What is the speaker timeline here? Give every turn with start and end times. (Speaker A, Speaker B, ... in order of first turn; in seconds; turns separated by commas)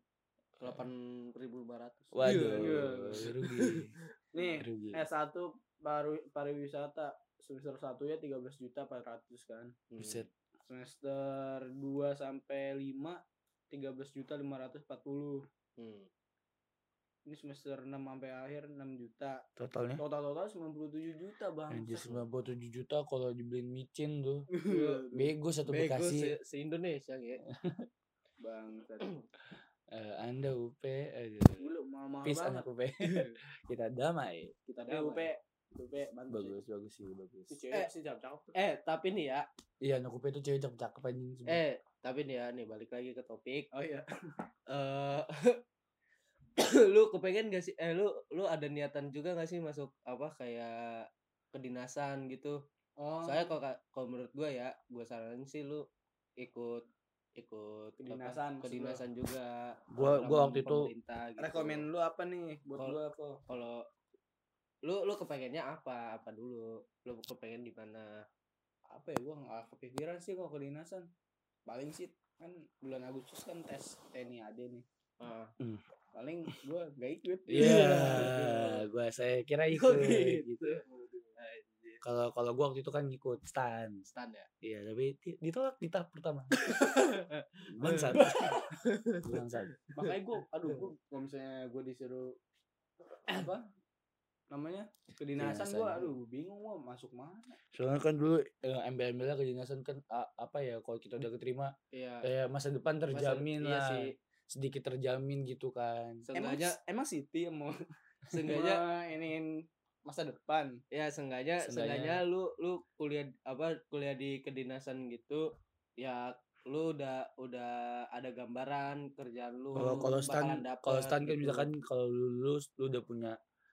Speaker A: 0.6-2.9, Speaker B: 0.6-0.9, Speaker B: 2.1-3.9, Speaker C: 2.2-3.3, Speaker A: 3.4-3.8, Speaker C: 4.3-9.8, Speaker B: 4.6-5.0, Speaker A: 9.9-10.2, Speaker B: 10.0-10.3, Speaker C: 10.7-15.4, Speaker A: 15.8-16.1, Speaker C: 17.3-19.4, Speaker B: 19.6-20.0, Speaker C: 20.0-22.2, Speaker B: 21.7-24.5, Speaker C: 24.5-25.3, Speaker A: 24.7-25.0, Speaker B: 25.1-26.3, Speaker A: 25.7-27.4, Speaker B: 27.5-27.9, Speaker C: 28.4-29.1, Speaker B: 29.9-31.6, Speaker C: 31.6-32.6, Speaker B: 32.2-34.5, Speaker A: 33.0-33.4, Speaker C: 34.7-36.6, Speaker A: 34.8-35.3, Speaker B: 36.3-37.6, Speaker C: 37.5-38.5, Speaker A: 38.5-39.5, Speaker B: 39.8-41.6, Speaker A: 41.5-43.7, Speaker C: 43.7-44.0, Speaker A: 44.7-45.6, Speaker A: 46.6-52.6, Speaker C: 53.0-53.5, Speaker A: 53.2-55.9, Speaker A: 56.4-56.8, Speaker A: 57.4-61.9, Speaker C: 58.0-59.0, Speaker B: 59.9-60.9, Speaker C: 61.4-63.4, Speaker A: 62.8-63.8, Speaker A: 64.8-68.2, Speaker C: 68.9-71.1, Speaker C: 71.7-74.8, Speaker A: 75.2-75.5, Speaker C: 76.1-78.8, Speaker B: 77.5-80.7, Speaker A: 79.7-80.8, Speaker C: 80.8-81.3, Speaker A: 81.4-82.0, Speaker B: 82.0-84.1, Speaker A: 84.1-84.5, Speaker B: 84.6-86.6, Speaker A: 86.6-90.1, Speaker B: 87.7-88.6, Speaker B: 89.2-89.7, Speaker C: 89.9-92.4, Speaker C: 93.3-93.6, Speaker C: 94.5-97.6, Speaker B: 95.4-96.1, Speaker B: 97.7-106.2, Speaker A: 101.9-102.3, Speaker A: 103.1-104.1, Speaker A: 106.2-106.8, Speaker C: 106.3-107.8, Speaker A: 108.3-108.8, Speaker C: 108.5-110.8, Speaker A: 110.9-115.5, Speaker B: 111.6-112.2, Speaker A: 116.0-121.7, Speaker B: 119.8-123.4